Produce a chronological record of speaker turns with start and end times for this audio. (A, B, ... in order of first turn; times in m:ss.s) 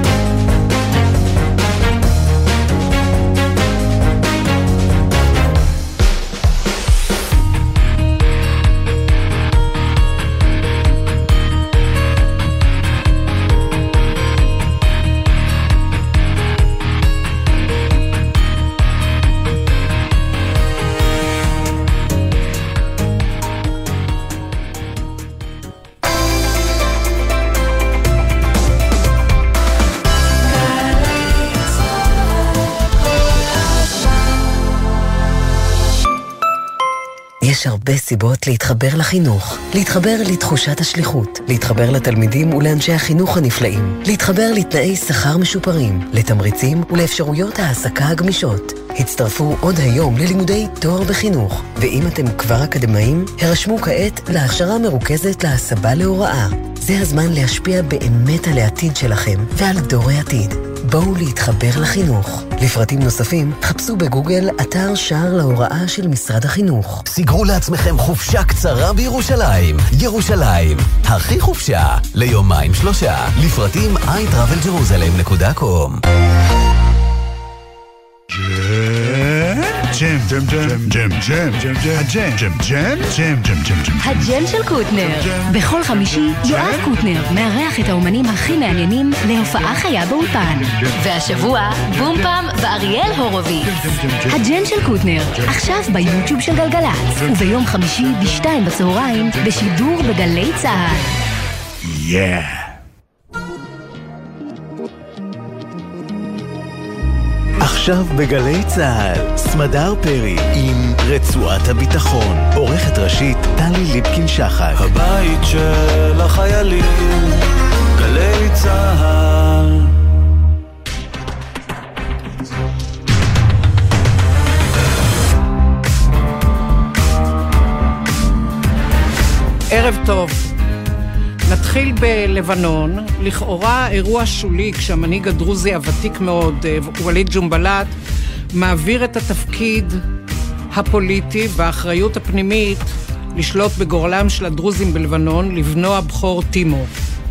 0:37.4-1:07.0 A
1:07.1-1:16.0 B
1:18.4-1:24.0 C
1:24.0-1:33.7 D
1:34.3-1:41.1 D
1:47.6-1:54.8 E
1:54.8-1:57.4 F
1:58.0-1:59.9 F
2:09.7-2:10.5 G
2:11.5-2:17.9 G
2:18.5-2:20.0 G
2:20.7-2:26.9 G